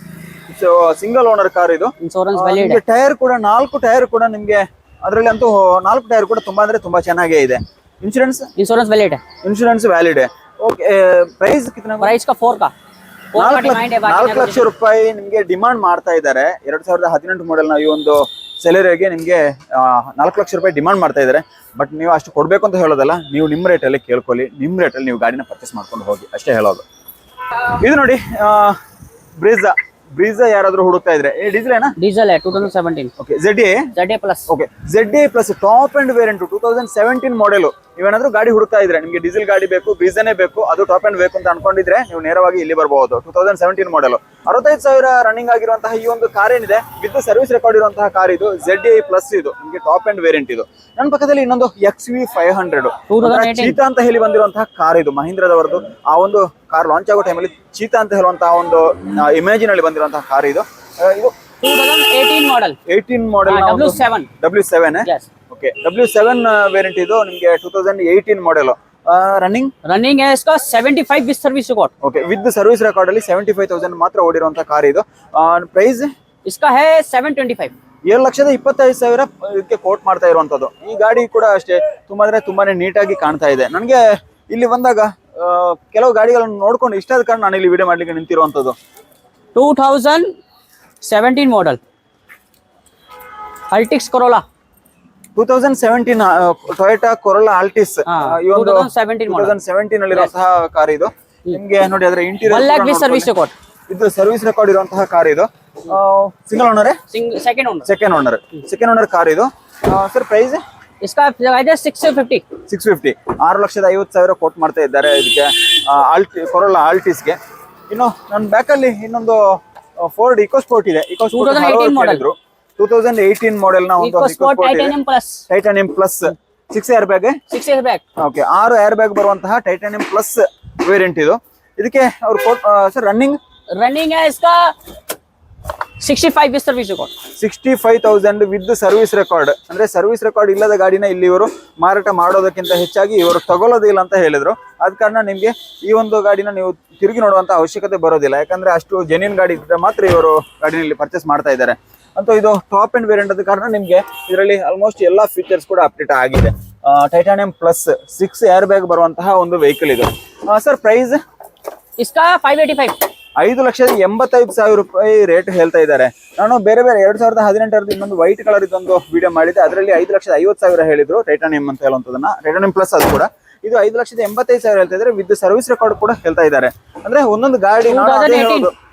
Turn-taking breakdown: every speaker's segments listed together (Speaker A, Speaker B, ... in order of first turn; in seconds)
Speaker A: 0.5-8.5, 9.4-12.2, 13.3-26.8, 27.7-28.8, 29.4-32.0, 33.2-33.9, 34.5-61.3, 62.9-69.7, 72.0-76.1, 78.1-88.8, 95.4-103.3, 103.9-107.0, 107.8-110.6, 112.7-117.4, 117.9-125.0, 125.5-127.4, 128.2-133.4, 137.4-161.2, 163.4-178.7
Speaker B: 2.0-2.8, 8.6-9.2, 12.0-12.7, 13.3-14.7, 32.0-33.1, 33.9-34.5, 53.1-53.8, 61.6-62.8, 63.5-64.3, 69.8-71.9, 76.5-77.7, 89.5-90.3, 91.0-91.8, 93.7-94.4, 98.1-99.5, 102.5-103.5, 107.1-107.9, 111.0-112.4, 121.3-122.2, 124.0-125.5, 127.5-128.0, 133.8-134.8, 136.0-137.1, 162.0-163.0, 177.9-178.7